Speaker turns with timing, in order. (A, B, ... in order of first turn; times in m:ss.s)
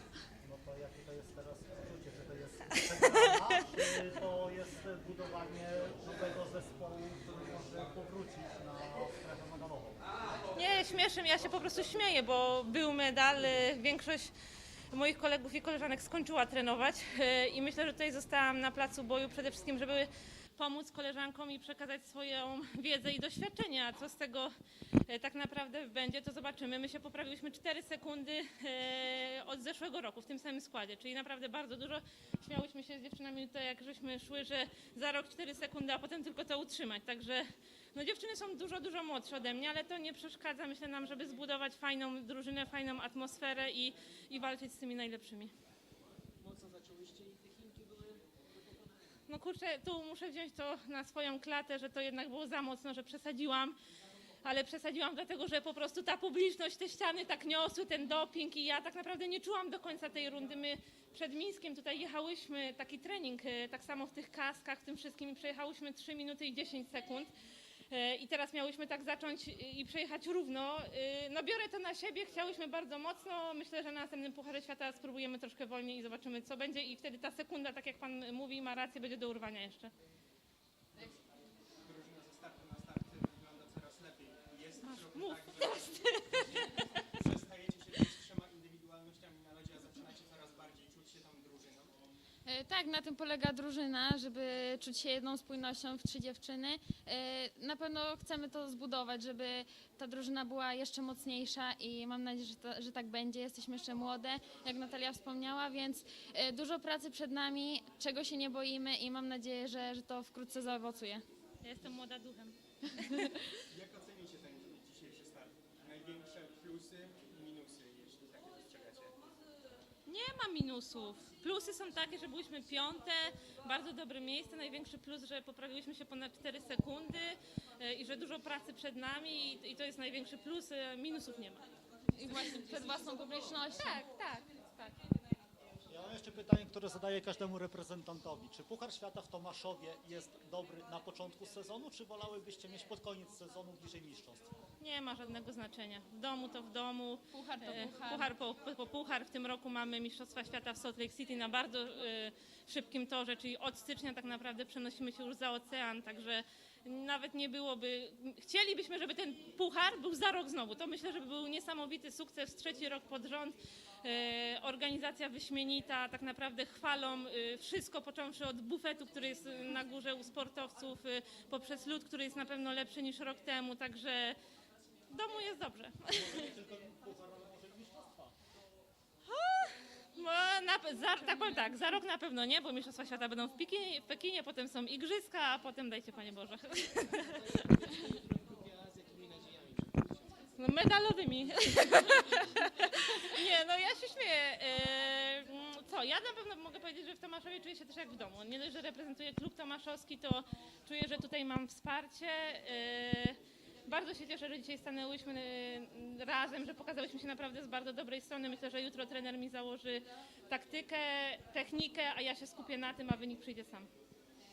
0:00.4-0:10.1 A
0:10.5-0:14.3 B
0:14.9-0:24.5 B
0:25.1-0:45.5 B
0:46.4-0:48.2 C
0:49.3-0:53.8 B
0:54.4-1:07.3 B
1:07.9-1:19.9 B
1:21.8-1:26.4 D
1:24.8-1:26.7 B
1:27.2-1:32.0 D
1:32.4-1:51.2 E
1:51.6-1:53.4 B
1:53.1-1:53.5 E
1:53.7-1:59.2 D
2:00.0-2:11.6 B
2:12.1-2:14.0 E
2:13.7-2:14.9 B
2:15.9-2:24.5 A
2:24.8-2:54.4 B
2:27.3-2:28.3 E
2:55.1-2:56.5 B
2:56.1-2:58.3 A
2:59.3-3:07.8 B
3:07.2-3:10.5 C
3:10.6-3:33.9 B